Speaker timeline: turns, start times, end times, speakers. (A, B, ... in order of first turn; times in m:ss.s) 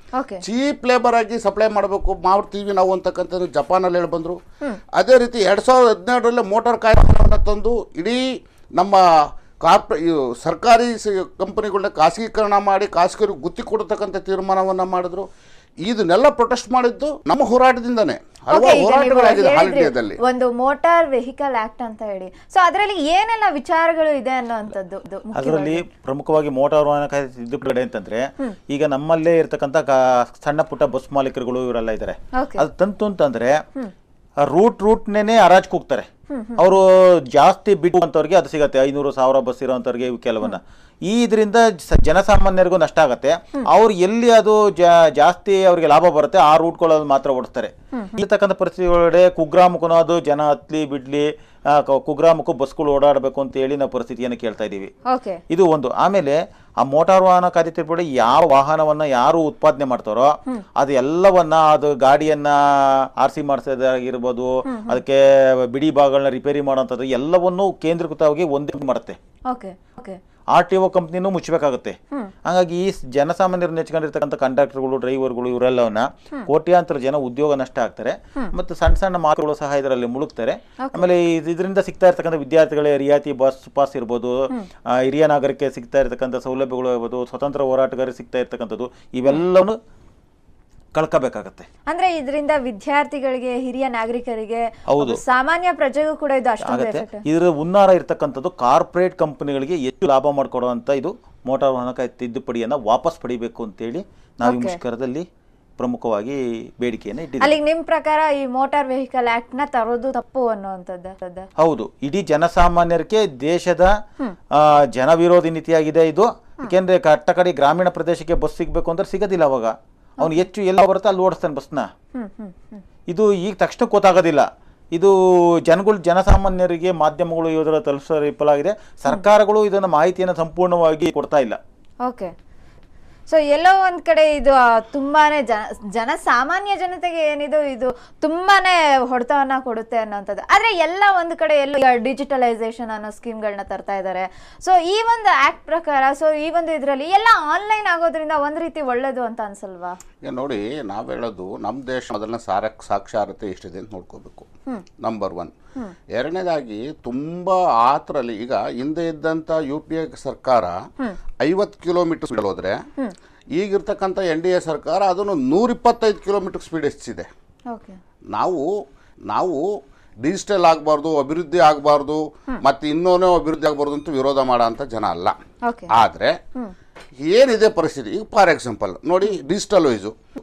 0:00.2-0:00.4 A
0:00.4-0:04.4 B
0:05.0-0:08.2 B
0:08.8-0:09.0 B
0:09.6-0:15.3 B
0:15.8-0:20.2 B
0:18.5-0:25.8 A
0:25.4-0:33.6 C
0:32.4-0:32.6 A
0:34.4-0:54.9 C
0:36.3-0:36.6 A
0:47.9-0:48.2 A
0:55.1-0:55.4 A
0:55.5-1:02.6 C
1:03.2-1:05.2 C
1:04.7-1:05.0 A
1:05.7-1:09.2 C
1:09.5-1:10.2 A
1:10.6-1:29.8 C
1:20.8-1:21.1 A
1:30.9-1:31.7 C
1:31.9-1:37.2 A
1:34.9-1:35.2 C
1:36.6-1:45.3 C
1:44.4-1:44.8 A
1:45.8-1:47.5 C
1:47.4-1:51.5 A
1:51.6-1:53.9 C
1:54.6-2:01.9 C
2:00.2-2:00.5 A
2:02.2-2:02.8 A
2:03.1-2:05.1 C
2:05.7-2:11.6 C
2:12.0-2:12.3 A
2:13.3-2:30.0 A
2:30.2-2:34.5 B
2:35.0-2:35.5 B
2:36.1-2:40.8 B
2:41.4-2:42.8 B
2:43.6-2:47.3 B
2:47.7-2:48.0 A
2:48.3-2:48.7 B
2:49.3-2:49.7 B
2:50.2-2:55.4 B
2:55.7-2:55.9 A
2:55.9-2:56.4 B
2:57.3-3:00.2 B